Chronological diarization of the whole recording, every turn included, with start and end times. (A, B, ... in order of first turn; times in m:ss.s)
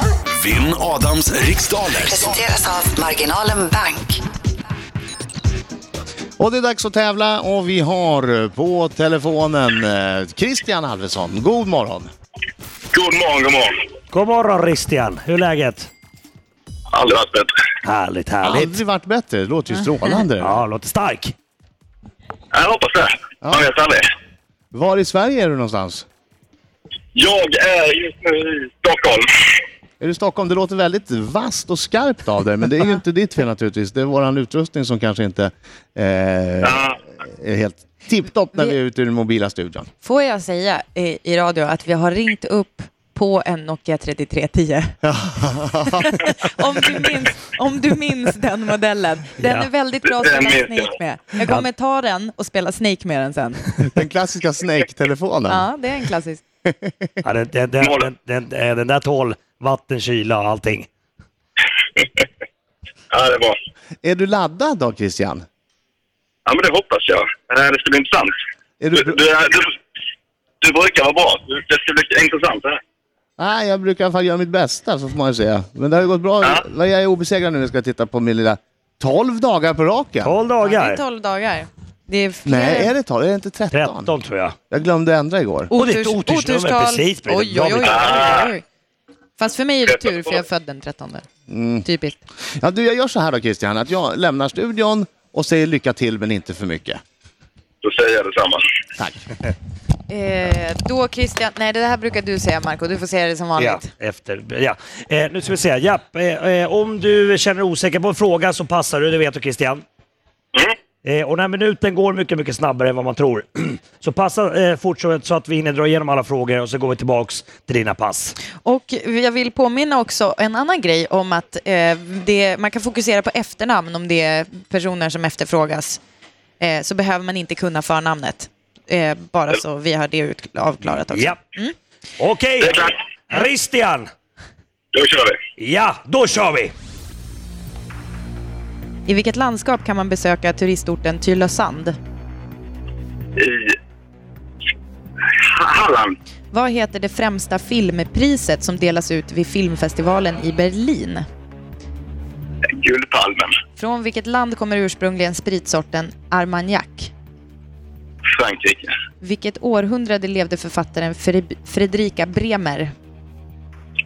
0:00.4-0:02.4 A
0:02.0-0:04.2 B
0:06.4-0:12.1 C
0:12.9-0:13.8 D
0:14.1-0:15.9 E
0:16.9-0:17.5 D
0:17.8-0:18.8 E
0:18.4-0:20.6 C
0:20.4-0:21.4 E
0:22.5-0:24.0 D
0:23.4-0:23.7 C
0:24.7-0:26.1 C
0:27.1-0:29.6 D
0:30.0-0:39.9 C
0:36.6-0:37.0 D
0:40.0-0:45.0 F
0:45.0-0:46.2 C
0:45.9-0:53.7 F
0:49.4-0:49.7 E
0:50.0-0:50.9 D
0:53.8-0:55.7 C
0:55.5-0:56.4 F
0:56.7-0:57.1 C
0:57.2-1:00.9 E
0:57.8-0:58.1 D
1:02.0-1:02.2 D
1:03.1-1:03.6 D
1:04.0-1:05.4 C
1:06.5-1:08.3 D
1:08.8-1:09.2 C
1:09.0-1:09.8 D
1:10.6-1:12.8 D
1:13.4-1:20.3 C
1:20.2-1:21.0 E
1:20.6-1:22.9 F
1:22.5-1:24.1 C
1:23.7-1:24.6 E
1:24.7-1:25.7 C
1:25.7-1:28.6 F
1:25.7-1:28.1 E
1:27.8-1:28.5 D
1:29.4-1:31.3 F
1:31.5-1:31.9 C
1:31.8-1:32.2 F
1:32.6-1:37.0 C
1:37.8-1:38.6 D
1:39.0-1:39.2 C
1:40.1-1:43.9 F
1:43.6-1:49.8 E
1:51.0-1:58.4 E
1:58.6-2:06.0 F
2:06.6-2:11.8 F
2:11.0-2:11.4 E
2:12.2-2:14.1 E
2:12.6-2:13.0 D
2:14.9-2:15.4 D
2:15.6-2:16.7 E
2:19.1-2:22.0 F
2:23.4-2:23.8 D
2:25.3-2:26.2 D
2:26.5-2:31.3 F
2:32.7-2:33.6 D
2:33.8-2:37.1 F
2:38.3-2:38.9 D
2:39.2-2:42.9 F